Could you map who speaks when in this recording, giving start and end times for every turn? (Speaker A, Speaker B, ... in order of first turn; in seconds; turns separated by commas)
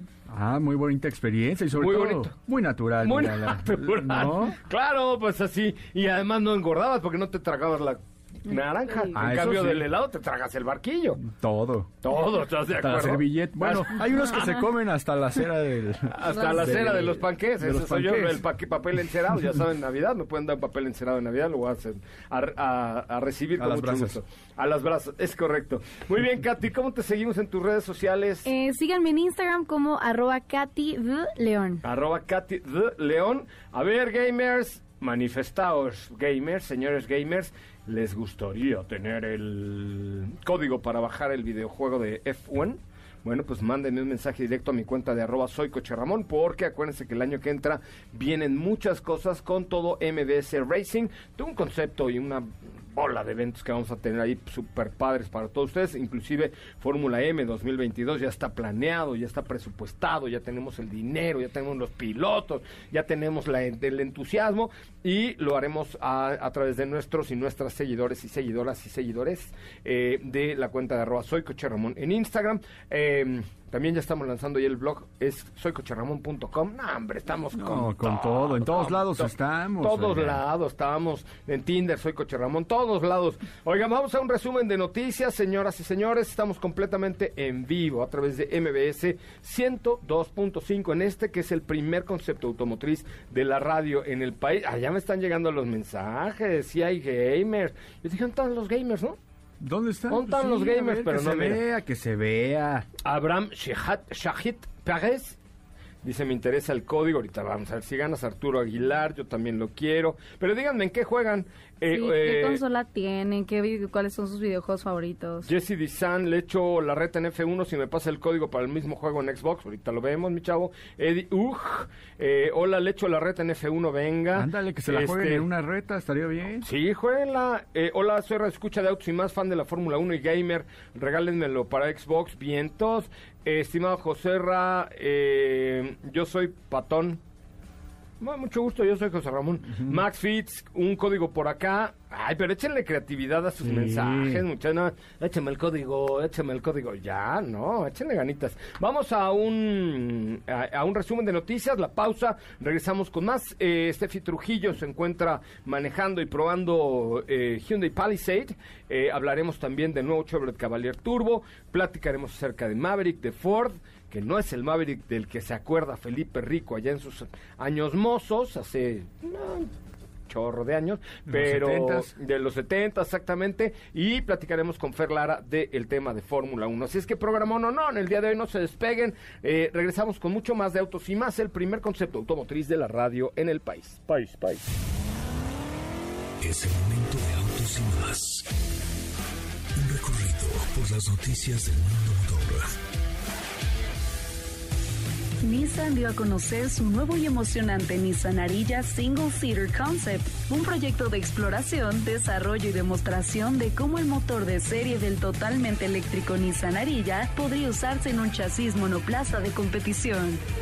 Speaker A: 0.3-4.6, Speaker B: 1.7-2.3, Speaker B: 3.0-11.2, Speaker A: 9.1-9.9, Speaker A: 11.2-11.9, Speaker B: 12.0-14.2, Speaker A: 12.7-18.4, Speaker B: 16.1-28.5, Speaker C: 16.4-16.9, Speaker A: 23.6-24.2, Speaker C: 28.4-31.8, Speaker B: 31.8-99.2, Speaker A: 77.5-80.4, Speaker A: 99.6-102.9, Speaker B: 100.1-101.6, Speaker B: 103.0-105.4, Speaker B: 106.0-112.6, Speaker C: 111.9-115.5, Speaker B: 115.4-125.5, Speaker A: 124.3-126.7, Speaker B: 126.6-137.2, Speaker B: 138.2-169.7, Speaker A: 143.6-144.4, Speaker B: 170.3-184.6, Speaker A: 171.3-172.1, Speaker D: 186.4-188.5, Speaker D: 189.7-192.7, Speaker E: 195.4-210.4